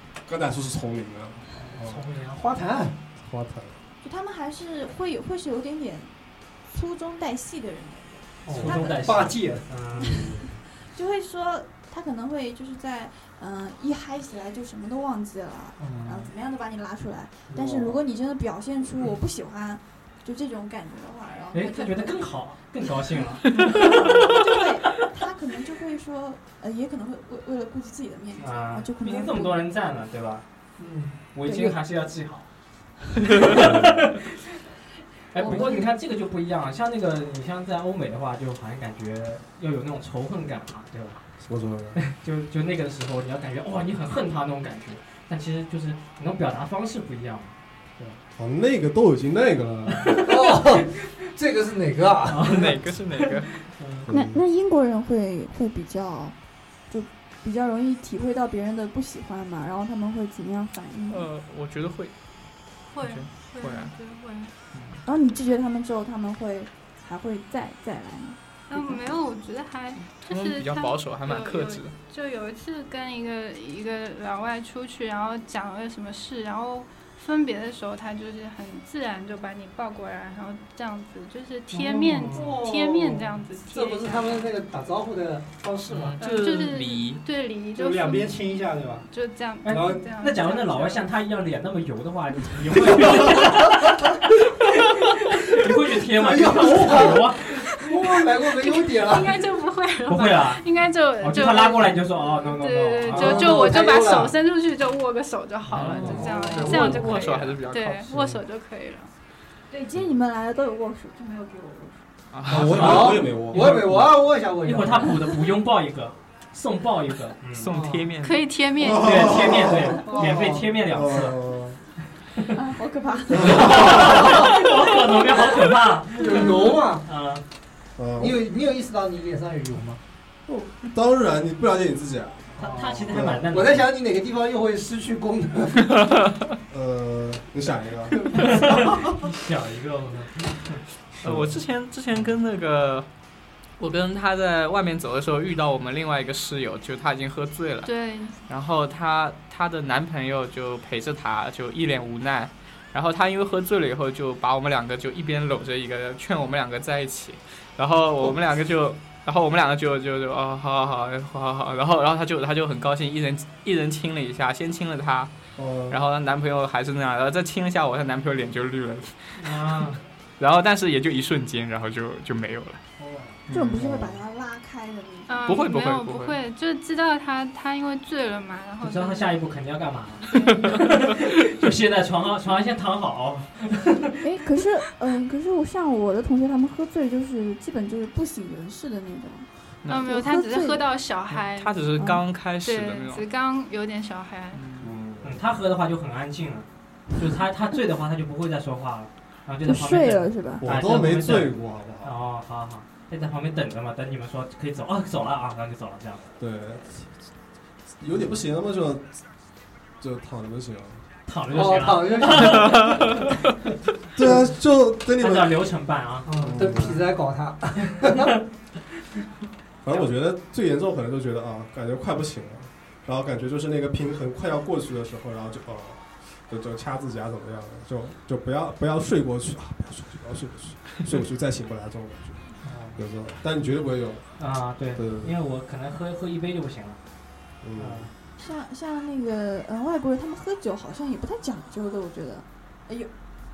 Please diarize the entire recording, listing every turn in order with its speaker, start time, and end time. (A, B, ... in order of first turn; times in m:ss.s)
0:00.2-0:02.0 A
0:01.7-0:03.0 B
0:03.2-0:03.8 A
0:04.0-0:09.4 C
0:08.4-0:09.7 B
0:08.5-0:10.3 D
0:10.0-0:10.6 A
0:10.0-0:22.3 C
0:15.8-0:16.1 B
0:15.8-0:16.3 D
0:17.5-0:18.0 B
0:21.5-0:24.4 D
0:23.5-0:29.7 C
0:28.4-0:30.4 D
0:30.8-0:31.2 B
0:31.3-0:32.5 D
0:31.5-0:31.8 C
0:33.2-0:34.3 D
0:33.6-0:34.0 A
0:35.3-0:41.2 D
0:35.4-0:35.9 C
0:41.4-0:42.0 A
0:42.0-0:48.2 D
0:48.4-0:50.2 A
0:50.2-0:52.7 B
0:52.3-0:54.1 D
0:52.4-0:53.6 E
0:54.1-0:54.4 A
0:54.1-0:56.4 C
0:56.9-1:01.3 C
1:01.1-1:02.1 E
1:02.9-1:04.6 F
1:03.0-1:04.0 E
1:04.7-1:05.0 E
1:05.0-1:09.2 C
1:08.7-1:24.5 F
1:10.0-1:12.0 E
1:21.7-1:22.5 D
1:22.2-1:26.2 B
1:25.9-1:27.2 E
1:26.2-1:28.4 F
1:27.7-1:29.1 B
1:29.1-1:31.0 F
1:29.6-1:37.6 D
1:29.7-1:30.0 B
1:35.6-1:39.6 B
1:38.6-1:49.1 F
1:40.1-1:40.6 D
1:41.2-1:43.7 D
1:43.1-1:44.4 B
1:45.7-1:48.4 E
1:45.8-1:46.1 D
1:46.0-1:47.2 B
1:49.7-1:52.1 C
1:52.3-1:53.3 E
1:52.5-1:54.1 A
1:52.5-1:55.2 B
1:53.5-1:53.8 D
1:54.6-1:57.7 D
1:57.6-1:58.5 E
1:57.7-1:58.1 B
1:58.2-1:59.5 F
1:58.8-2:00.0 A
1:58.9-2:01.4 D
2:00.0-2:00.3 C
2:00.0-2:00.7 B
2:00.9-2:01.8 A
2:02.5-2:04.2 C
2:03.3-2:04.4 A
2:03.4-2:07.4 D
2:06.2-2:07.0 B
2:08.0-2:08.4 A
2:08.2-2:10.0 B
2:10.5-2:13.5 A
2:12.6-2:13.9 D
2:12.6-2:16.0 B
2:16.7-2:18.2 A
2:18.1-2:18.9 B
2:18.4-2:20.8 D
2:21.2-2:23.1 E
2:21.2-2:21.6 A
2:23.8-2:27.9 E
2:27.8-2:28.4 F
2:28.5-2:45.3 E
2:45.6-2:46.0 A
2:45.9-2:49.6 E
2:49.4-2:50.0 D
2:50.4-2:52.8 E
2:53.0-2:53.4 D
2:53.5-2:53.8 E
2:53.5-2:55.6 C
2:53.8-2:54.2 A
2:55.3-2:59.4 F
2:55.5-2:56.4 E
2:58.8-3:04.2 D
3:00.2-3:01.0 F
3:00.3-3:00.8 E
3:04.2-3:10.9 C
3:09.9-3:11.8 F
3:11.3-3:13.2 E
3:12.0-3:12.2 C
3:12.6-3:14.6 F
3:14.5-3:14.9 E
3:14.8-3:15.4 A
3:15.2-3:26.2 D
3:19.6-3:20.7 C
3:20.6-3:22.1 A
3:26.4-3:27.1 A
3:28.0-3:29.2 A
3:30.0-3:31.1 A
3:31.2-3:33.3 D
3:31.5-3:33.2 B
3:34.2-3:35.7 A
3:35.2-3:36.9 D
3:36.3-3:38.3 B
3:36.4-3:37.0 A
3:39.8-3:54.2 A
3:52.7-3:52.9 D
3:52.7-3:53.0 B
3:54.4-3:57.0 D
3:55.0-3:55.3 A
3:57.6-3:58.1 A
3:57.8-3:58.1 D
3:58.4-4:03.1 C